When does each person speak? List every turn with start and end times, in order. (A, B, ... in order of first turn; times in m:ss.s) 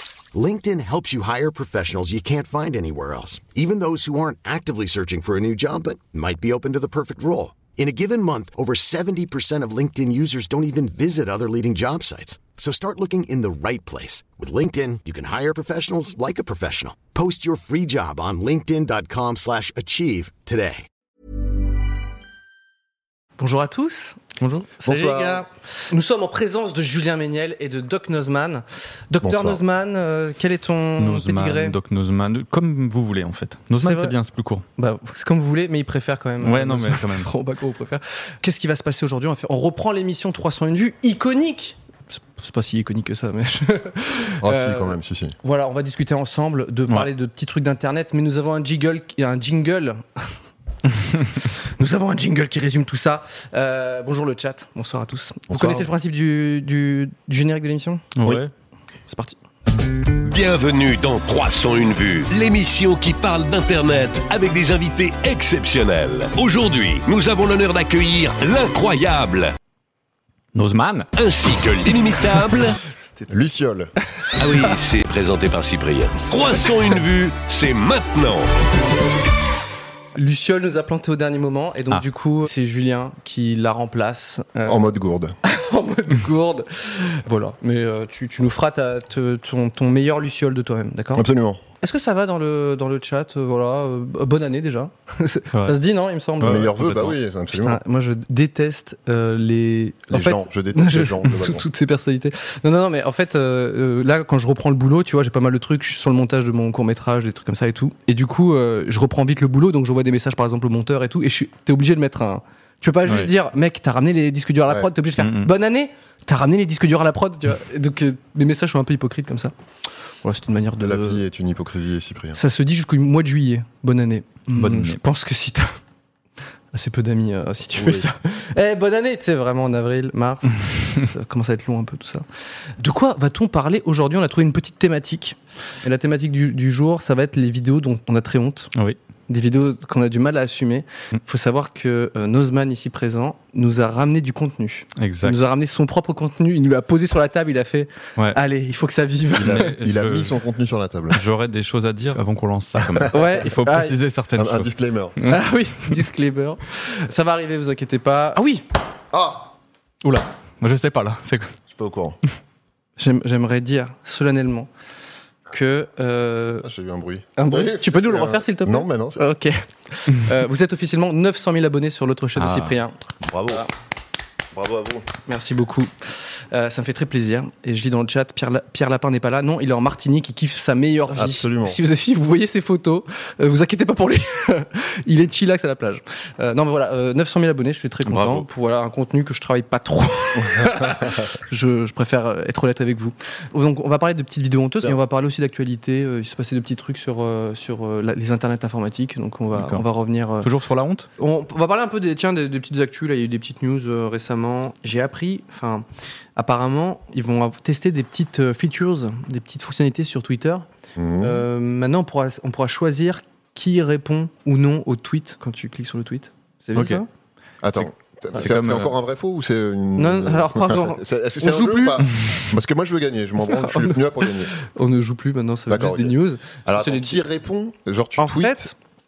0:00.3-0:20.9 A
0:23.4-0:24.2 B
0:24.4-0:24.7 C
0:24.8-0:31.8 B
0:24.8-0:25.4 D
0:29.2-0:29.6 D
0:31.0-0:34.7 C
0:33.8-0:34.2 B
0:34.8-0:50.3 B
0:36.4-0:37.3 C
0:44.4-0:45.4 D
0:51.2-0:58.1 B
0:55.5-0:55.9 D
0:58.2-0:58.5 C
0:59.1-0:59.4 B
1:00.2-1:09.6 E
1:10.5-1:11.1 C
1:11.2-1:12.8 E
1:13.1-1:13.3 B
1:13.3-1:13.9 D
1:14.4-1:18.5 E
1:20.2-1:24.8 B
1:24.6-1:25.4 D
1:25.4-1:31.3 B
1:31.2-1:31.6 D
1:31.8-1:36.7 B
1:36.4-1:37.2 C
1:36.4-1:37.8 D
1:37.5-1:59.5 B
1:40.1-1:41.6 D
1:55.2-1:55.5 C
2:00.2-2:01.2 B
2:00.8-2:02.4 D
2:02.3-2:05.8 B
2:04.6-2:05.0 C
2:06.7-2:12.2 B
2:07.7-2:08.1 D
2:12.8-2:18.7 B
2:19.3-2:29.7 B
2:25.0-2:25.4 C
2:29.4-2:31.2 D
2:29.4-2:30.4 C
2:31.1-2:35.4 C
2:32.8-2:33.1 D
2:33.1-2:34.0 B
2:34.4-2:35.2 D
2:35.3-2:38.6 B
2:39.1-2:39.5 D
2:40.0-2:41.6 C
2:41.7-2:42.2 D
2:43.0-2:44.7 B
2:45.5-2:46.7 B
2:46.6-2:49.2 D
2:47.4-2:53.0 B
2:52.4-2:52.8 C
2:53.2-2:53.7 D
2:54.5-2:55.1 D
2:55.3-3:20.5 B
3:01.1-3:01.8 D
3:08.0-3:08.5 C
3:10.6-3:11.1 D
3:19.5-3:19.9 C
3:20.4-3:21.1 C
3:21.2-3:25.8 B
3:26.4-3:30.7 B
3:31.0-3:31.4 D
3:31.2-3:37.1 B
3:36.8-3:37.0 C
3:37.6-3:44.6 D
3:37.8-3:38.9 C
3:40.0-3:42.1 B
3:43.5-3:47.2 B
3:45.7-3:48.7 D
3:48.2-3:48.7 B